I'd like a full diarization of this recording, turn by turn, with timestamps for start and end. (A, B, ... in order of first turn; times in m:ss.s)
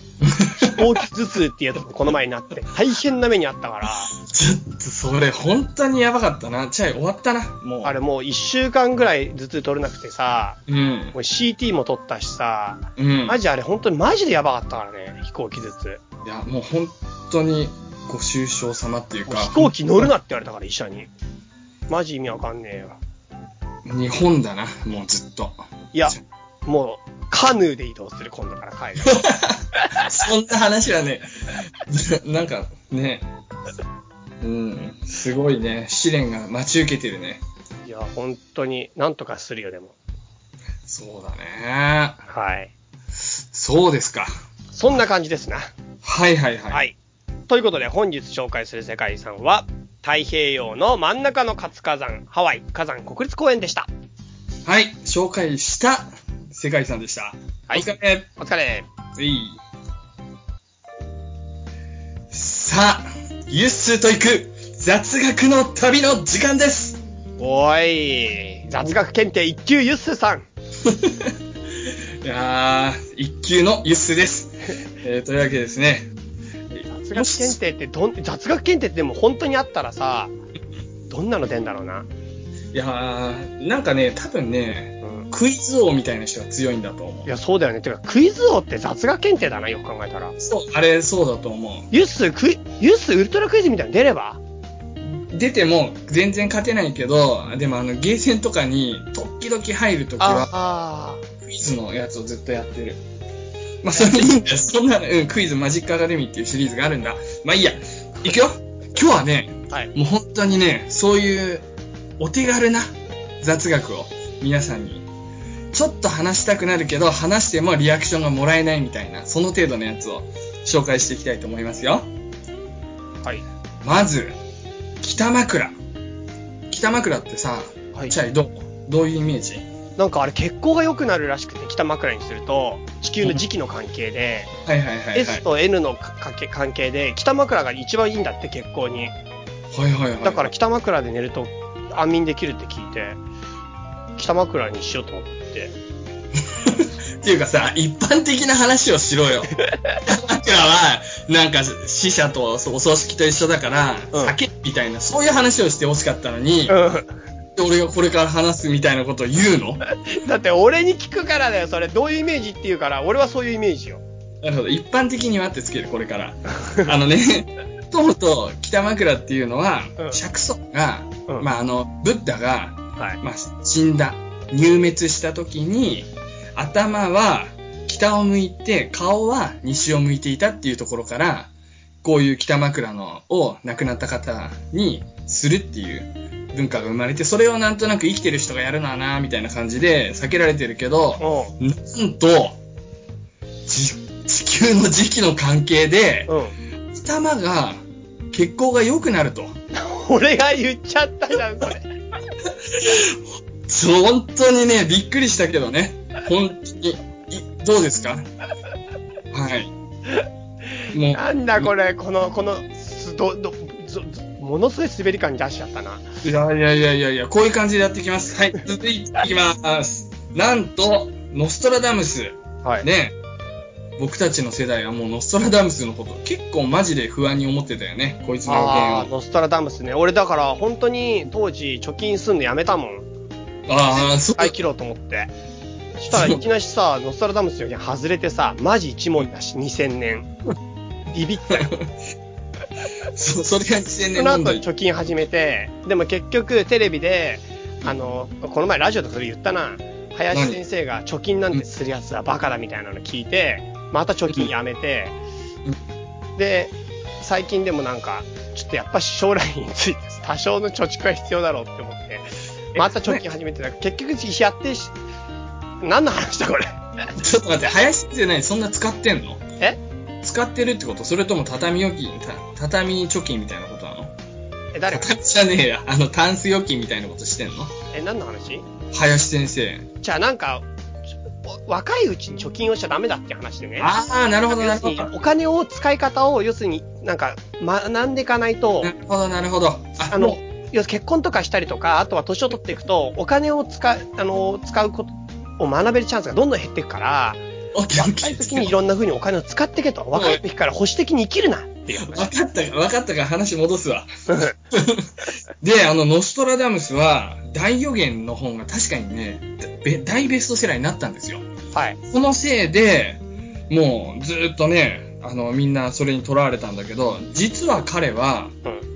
0:00.2-0:01.0 A
0:00.5-0:04.1 B
0:04.1-0:08.0 A
0:07.8-0:10.6 B
0:10.7-0:11.1 A
0:11.1-0:16.0 B
0:13.0-0:13.4 A
0:16.2-0:20.1 A
0:19.3-0:21.1 B
0:21.9-0:23.0 B
0:23.8-0:26.2 A
0:25.9-0:30.1 B
0:29.0-0:33.2 A
0:34.4-0:37.4 A
0:37.8-0:39.9 B
0:40.8-0:42.2 A
0:42.3-0:42.7 B
0:43.5-0:44.3 A
0:44.7-0:45.7 B
0:46.0-0:46.8 A
0:46.7-0:47.0 B
0:47.5-0:53.9 B
0:54.6-0:58.3 A
0:57.7-0:58.9 B
0:59.2-0:59.6 A
1:02.3-1:07.0 A
1:07.4-1:10.4 B
1:10.8-1:16.1 A
1:16.7-1:17.6 A
1:16.9-1:20.3 B
1:21.1-1:22.1 B
1:22.7-1:27.3 A
1:25.0-1:25.3 B
1:27.2-1:30.3 B
1:30.4-1:31.9 A
1:31.9-1:34.4 B
1:35.0-1:40.5 A
1:40.2-1:41.2 B
1:41.4-1:43.0 A
1:43.8-1:51.6 A
1:43.9-1:44.3 B
1:52.2-1:55.0 A
1:55.7-2:02.1 A
2:03.8-2:04.4 A
2:05.0-2:05.8 A
2:06.7-2:09.6 A
2:10.0-2:14.5 B
2:14.6-2:15.4 A
2:15.1-2:19.1 B
2:19.7-2:20.5 A
2:20.2-2:23.2 B
2:24.2-2:25.7 B
2:26.4-2:36.8 A
2:29.7-2:30.0 B
2:36.7-2:37.1 B
2:37.6-2:39.8 A
2:40.0-2:44.0 B
2:44.4-3:01.5 A
3:02.0-3:12.6 A
3:11.2-3:11.5 B
3:13.6-3:16.3 A
3:16.3-3:16.5 B
3:16.9-3:19.5 A
3:19.7-3:21.9 B
3:22.4-3:28.3 A
3:29.3-3:29.7 A
3:30.9-3:31.7 A
3:31.1-3:36.0 B
3:36.2-3:43.1 A
3:44.0-3:49.1 A
3:48.4-3:53.1 B
3:53.7-3:54.6 A
3:54.0-3:55.3 B
3:56.0-4:00.3 B
3:56.1-3:56.4 A
4:01.1-4:01.7 B
4:01.5-4:01.9 A
4:03.1-4:04.6 A
4:04.1-4:15.2 B
4:10.3-4:10.6 A
4:16.4-4:24.9 B
4:22.7-4:23.2 A
4:25.8-4:27.0 B
4:27.2-4:29.4 A
4:30.2-4:34.1 A
4:34.7-4:35.1 B
4:34.9-4:37.7 A
4:37.9-4:38.6 B
4:38.9-4:39.9 A
4:40.0-4:40.6 B
4:41.4-4:43.9 B
4:43.8-4:45.1 A
4:44.5-4:48.9 B
4:48.8-4:50.4 A
4:50.1-4:57.4 B
4:57.7-4:58.7 A
4:57.9-5:02.3 B
5:00.1-5:00.4 A
5:01.9-5:04.1 A
5:04.3-5:04.5 B
5:04.7-5:11.4 A
5:11.7-5:12.0 B
5:12.0-5:18.5 A